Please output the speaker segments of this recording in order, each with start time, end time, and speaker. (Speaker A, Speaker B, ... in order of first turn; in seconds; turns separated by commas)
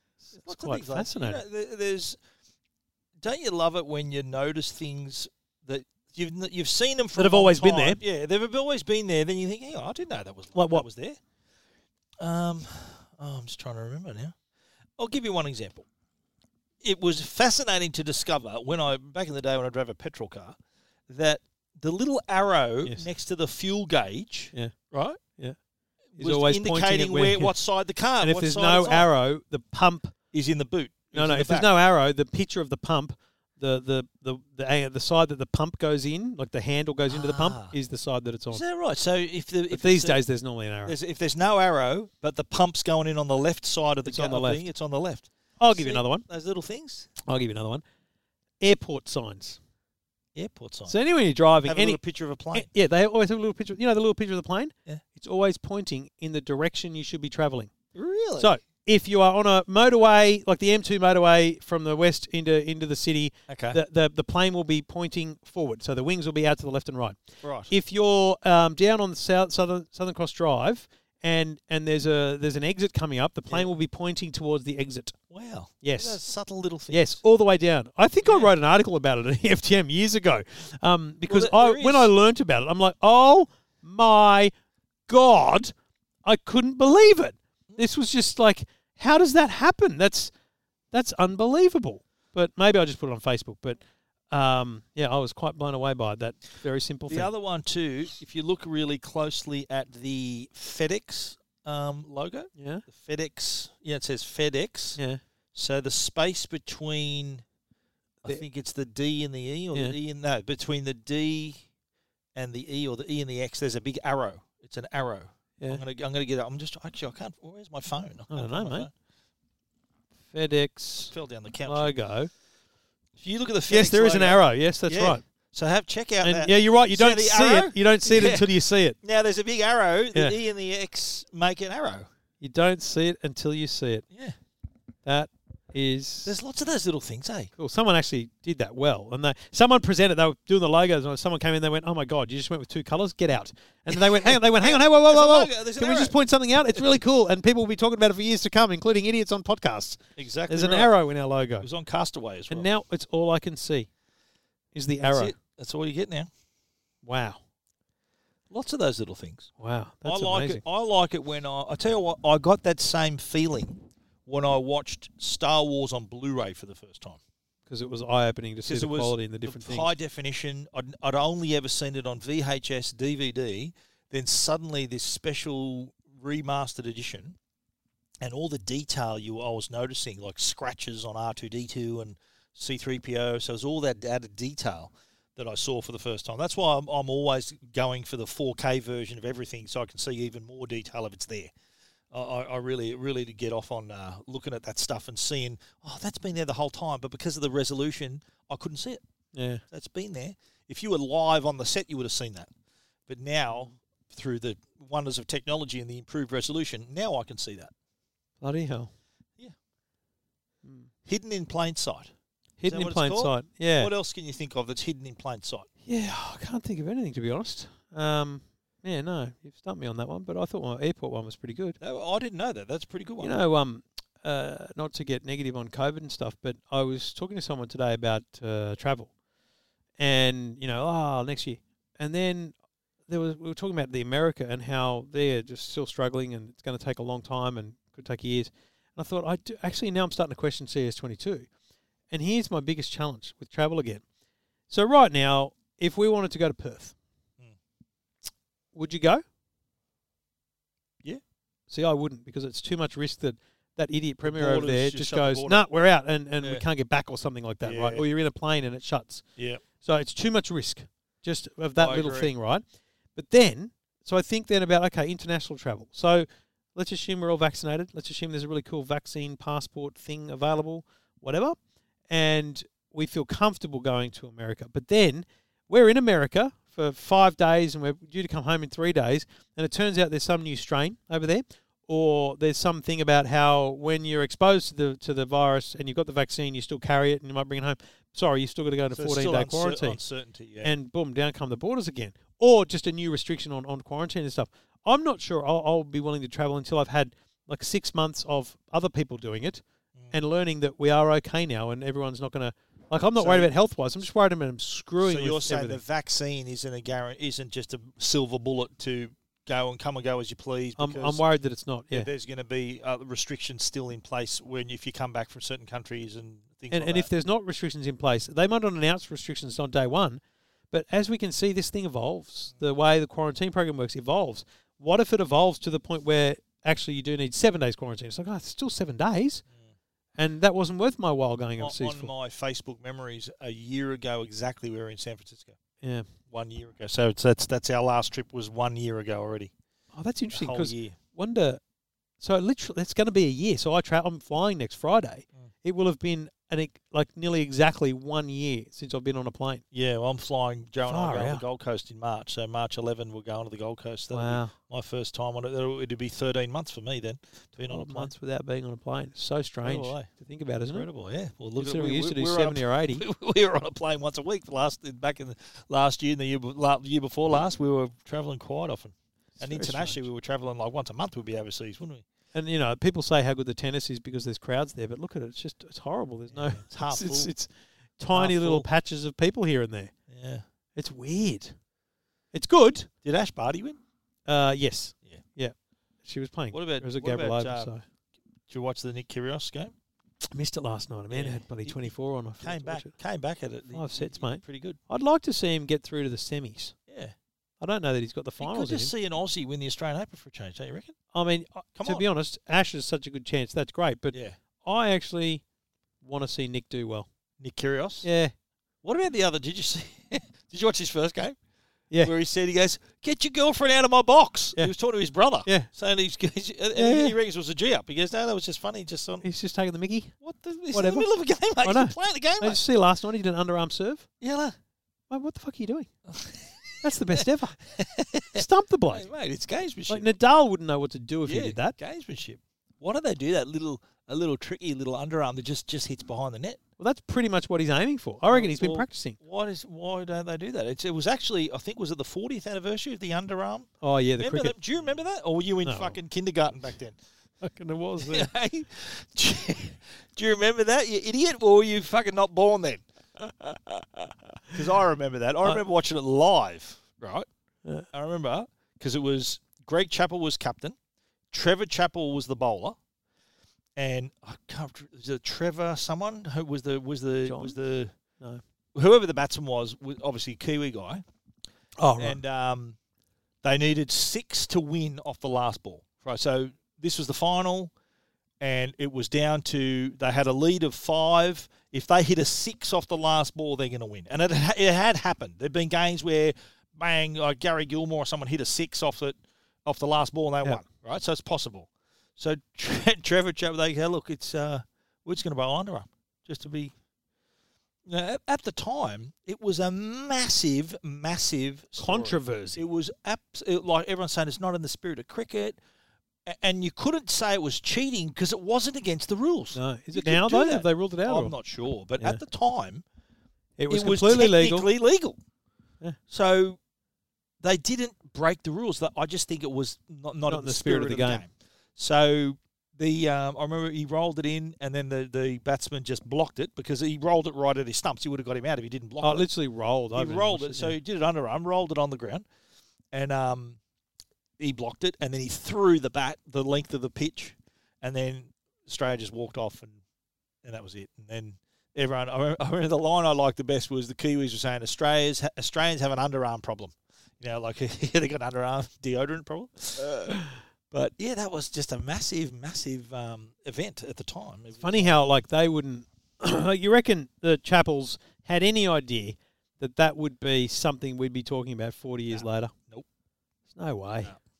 Speaker A: 0.3-1.4, Speaker B: 0.4-2.2, Speaker B: 3.2-11.2, Speaker A: 7.2-8.0, Speaker A: 10.5-10.8, Speaker B: 12.2-14.3, Speaker B: 15.0-15.8, Speaker B: 16.8-20.6, Speaker B: 21.1-25.2, Speaker A: 26.2-27.5, Speaker B: 26.2-29.1, Speaker A: 28.2-30.1, Speaker B: 30.3-31.7, Speaker A: 31.1-38.6, Speaker B: 37.1-37.7, Speaker B: 38.5-40.2, Speaker A: 39.7-41.0, Speaker B: 40.9-47.1, Speaker A: 44.0-44.6, Speaker A: 45.6-46.2, Speaker A: 47.2-47.8, Speaker A: 48.6-49.6, Speaker B: 50.3-50.9, Speaker A: 50.9-52.0, Speaker B: 51.6-52.7, Speaker A: 52.5-57.7, Speaker B: 57.9-58.5, Speaker A: 58.4-75.1, Speaker B: 63.5-63.8, Speaker B: 67.4-67.7, Speaker B: 73.5-73.7, Speaker B: 75.3-77.2, Speaker A: 75.8-76.2, Speaker A: 76.9-84.5, Speaker B: 78.2-78.5, Speaker B: 81.2-82.1, Speaker A: 85.1-85.7, Speaker A: 86.2-90.3, Speaker A: 90.9-93.8, Speaker A: 94.3-97.3, Speaker B: 97.1-105.0, Speaker A: 102.5-102.8, Speaker A: 105.0-105.2, Speaker B: 105.5-107.4, Speaker B: 108.2-111.6, Speaker B: 112.3-118.9, Speaker A: 118.3-118.9, Speaker A: 120.3-121.1, Speaker B: 121.1-122.0, Speaker A: 121.7-122.3, Speaker B: 123.2-128.5, Speaker A: 123.7-125.2, Speaker A: 126.2-129.0, Speaker B: 129.0-132.1, Speaker A: 132.4-134.0, Speaker A: 135.0-136.3, Speaker B: 136.2-137.5, Speaker A: 137.6-151.7, Speaker B: 143.9-146.2, Speaker B: 150.2-150.9, Speaker B: 151.6-152.7, Speaker A: 152.5-153.9, Speaker A: 154.7-155.3, Speaker B: 155.0-156.3, Speaker A: 157.0-157.4, Speaker B: 158.5-159.5, Speaker A: 159.6-160.6, Speaker B: 160.0-167.2, Speaker A: 167.7-169.9, Speaker B: 168.7-177.4, Speaker B: 178.2-191.5, Speaker B: 192.1-199.0, Speaker A: 199.3-199.6, Speaker B: 199.7-202.5, Speaker B: 203.1-207.7, Speaker A: 208.4-208.9, Speaker A: 210.6-210.9, Speaker B: 211.1-212.1, Speaker A: 212.6-213.9, Speaker B: 212.7-215.7, Speaker A: 215.8-221.8, Speaker B: 221.8-223.4, Speaker A: 223.2-229.1, Speaker A: 230.0-232.5, Speaker A: 233.1-241.5, Speaker A: 242.1-244.0, Speaker A: 244.7-246.9, Speaker A: 248.7-249.2, Speaker A: 251.7-259.2, Speaker B: 254.2-255.6, Speaker B: 257.6-258.1, Speaker B: 259.4-259.6, Speaker A: 259.8-262.6, Speaker B: 261.8-262.3, Speaker A: 263.1-271.6, Speaker A: 272.1-290.0, Speaker B: 288.9-290.7, Speaker A: 290.6-305.8, Speaker B: 303.2-303.5, Speaker B: 305.0-311.2, Speaker A: 310.8-312.1, Speaker B: 311.9-317.1, Speaker A: 316.7-329.4, Speaker A: 330.2-332.1, Speaker B: 331.6-335.6, Speaker A: 335.8-336.1, Speaker B: 336.3-339.5, Speaker A: 339.9-341.6, Speaker B: 340.3-341.0, Speaker A: 342.2-349.6, Speaker B: 349.7-358.1, Speaker A: 350.9-351.4, Speaker A: 354.1-354.5, Speaker A: 357.6-360.9, Speaker B: 359.6-360.1, Speaker B: 360.7-372.0, Speaker A: 361.6-363.0, Speaker A: 369.4-370.0, Speaker A: 372.3-379.9, Speaker B: 376.3-377.3, Speaker B: 378.1-378.7, Speaker B: 380.1-380.4, Speaker A: 380.8-381.5, Speaker A: 382.3-382.9, Speaker B: 383.0-383.8, Speaker A: 384.3-387.8, Speaker B: 386.5-387.7, Speaker B: 388.5-389.7, Speaker A: 390.3-392.9, Speaker B: 391.1-394.8, Speaker A: 393.7-396.7, Speaker B: 396.9-397.1, Speaker A: 397.6-398.9, Speaker B: 398.4-400.9, Speaker A: 401.1-405.4, Speaker B: 401.8-402.0, Speaker A: 406.0-407.1, Speaker B: 407.4-408.1, Speaker A: 408.0-408.3, Speaker B: 408.8-411.4, Speaker B: 412.0-419.2, Speaker A: 416.8-417.1, Speaker A: 419.2-420.1, Speaker B: 420.2-422.6, Speaker A: 420.7-421.1, Speaker A: 421.6-424.1, Speaker B: 424.2-424.6, Speaker A: 425.1-425.9, Speaker B: 426.1-430.1, Speaker A: 426.8-427.6, Speaker A: 428.3-429.1, Speaker A: 429.9-431.8, Speaker B: 431.2-436.6, Speaker A: 436.8-439.2, Speaker B: 438.3-447.0, Speaker A: 443.8-444.5, Speaker A: 445.6-446.0, Speaker A: 447.4-448.3, Speaker B: 448.0-457.3, Speaker B: 457.9-460.8, Speaker B: 461.3-462.8, Speaker B: 463.8-467.9, Speaker A: 467.2-467.6, Speaker B: 468.7-471.0, Speaker A: 471.8-472.2, Speaker B: 472.0-472.8, Speaker B: 473.4-477.7, Speaker B: 478.4-496.7, Speaker B: 497.9-505.6, Speaker A: 501.8-502.6, Speaker B: 506.2-512.8, Speaker A: 509.5-511.3, Speaker A: 513.6-514.7, Speaker B: 513.7-515.2, Speaker B: 516.1-516.6, Speaker B: 517.4-529.3, Speaker A: 520.3-521.2, Speaker A: 529.0-530.8, Speaker B: 529.9-532.2, Speaker B: 532.9-533.6, Speaker B: 534.4-539.8, Speaker B: 540.4-550.1, Speaker A: 550.1-550.3, Speaker B: 550.7-555.0, Speaker A: 554.6-562.5, Speaker B: 562.1-562.9, Speaker A: 563.5-564.1